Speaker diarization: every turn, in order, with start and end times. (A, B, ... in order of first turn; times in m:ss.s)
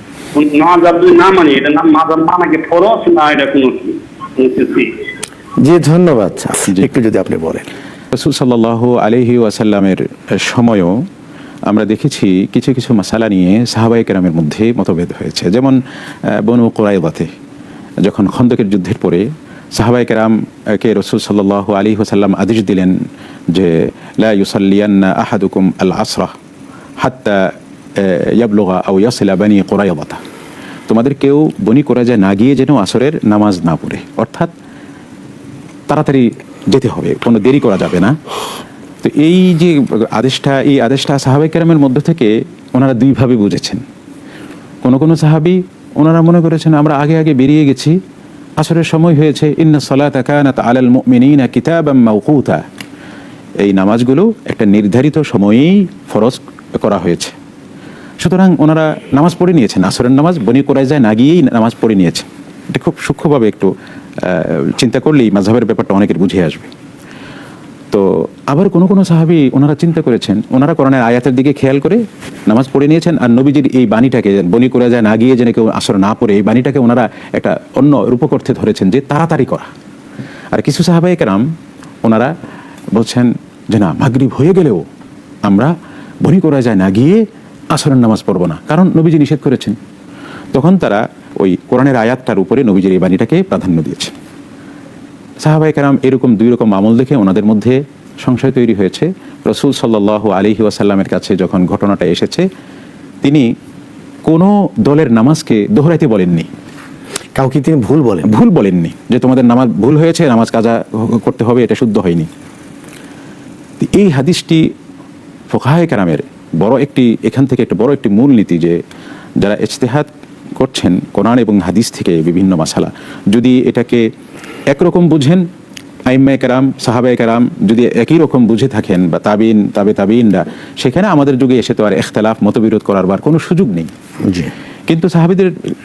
0:00.3-0:04.9 A
0:05.6-0:07.7 B
0:08.1-0:10.9 C
0:11.7-0:15.8 C
0:16.3-0:17.3 C
0:18.0-0:19.2 C
0:19.7-0:22.9 C
0:23.5-0:26.3 C
0:27.0-0:30.2 C
0:30.9-0:34.5 C
0:35.9-0:38.2 C
0:39.0-0:43.8 C
0:44.8-0:48.0 C
0:48.6-0:52.6 C
0:53.6-0:57.3 C
0:58.2-1:06.7 C
1:07.9-1:19.7 C
1:20.5-1:21.4 C
1:22.0-1:22.3 C
1:23.0-1:24.8 C
1:25.4-1:25.7 C
1:26.2-1:27.2 C
1:27.7-1:29.8 C
1:30.5-1:34.1 C
1:35.4-1:42.4 C
1:44.2-1:46.5 C
1:47.4-1:48.4 B
1:48.2-1:52.3 C
1:53.8-1:54.6 C
1:55.5-1:58.8 C
1:59.4-2:04.0 C
2:04.7-2:05.4 C
2:06.1-2:13.9 C
2:14.2-2:14.5 B
2:14.9-2:15.5 C